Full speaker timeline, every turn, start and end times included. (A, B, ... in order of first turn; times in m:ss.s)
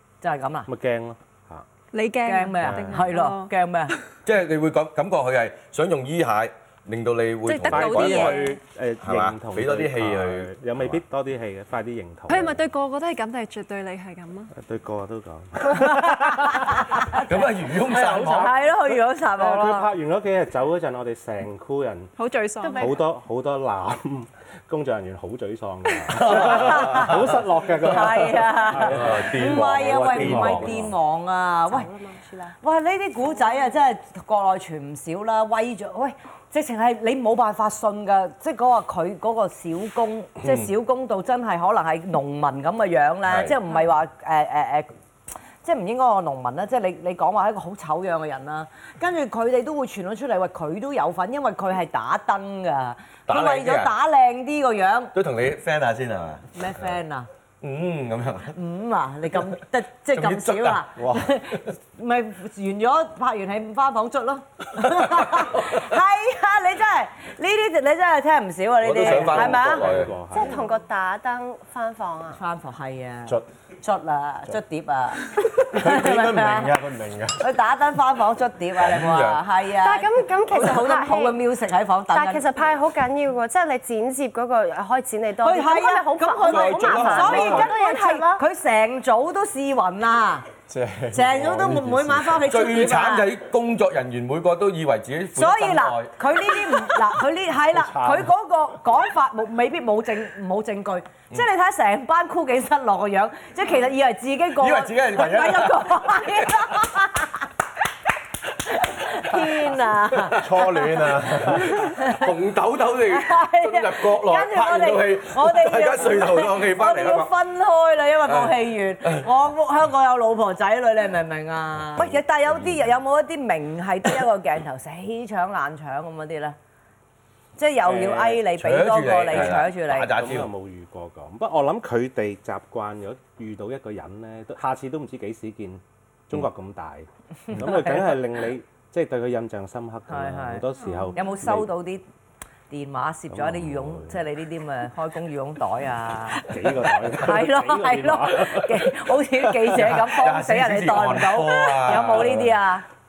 0:00.2-0:00.7 A
0:00.6-0:01.6 B
0:01.9-0:03.5 C
0:02.2-0:04.0 A
0:02.6-0:03.0 B
0:04.2-0:08.4 D
0:07.5-0:08.6 C
0:07.6-0:12.6 B
0:09.0-0:11.0 D
0:12.3-0:14.5 C
0:14.5-0:17.0 B
0:15.7-0:17.3 A
0:17.2-0:18.5 D
0:17.7-0:22.1 B
0:18.2-0:19.9 A
0:22.2-0:22.9 C
0:22.6-0:23.0 E
0:22.8-0:30.8 B
0:26.2-0:27.0 D
0:26.3-0:27.2 A
0:27.8-0:31.9 A
0:28.8-0:30.9 D
0:31.7-0:32.5 E
0:32.6-0:44.9 A
0:40.4-0:40.7 D
0:43.2-0:43.6 D
0:45.6-0:55.1 A
0:53.3-0:53.9 D
0:55.1-0:56.9 D
0:56.5-0:57.3 A
0:57.6-0:58.5 D
0:58.5-1:09.9 A
1:00.1-1:01.2 D
1:05.3-1:05.8 D
1:08.8-1:10.1 D
1:09.0-1:10.6 B
1:10.3-1:12.4 E
1:12.3-1:16.8 A
1:15.4-1:17.4 F
1:17.4-1:22.4 A
1:18.8-1:19.4 D
1:19.8-1:21.4 E
1:22.1-1:28.4 E
1:25.4-1:30.5 A
1:26.4-1:27.6 D
1:30.7-1:32.4 F
1:31.1-1:33.3 A
1:32.4-1:36.8 D
1:35.3-1:47.3 A
1:37.7-1:38.3 F
1:44.6-1:46.8 D
1:48.8-1:50.5 A
1:50.1-1:57.3 D
1:50.4-1:51.8 F
1:51.9-1:52.3 A
1:53.1-2:06.6 A
1:58.3-1:59.3 D
2:02.0-2:02.9 D
2:07.6-2:10.1 A
2:07.8-2:08.4 B
2:08.5-2:10.5 D
2:09.4-2:21.7 B
2:17.5-2:18.2 A
2:20.1-2:22.0 A
2:20.8-2:21.2 C
2:22.7-2:32.8 A
2:23.3-2:24.2 B
2:26.4-2:29.9 B
2:30.0-2:32.4 D
2:31.9-2:32.5 B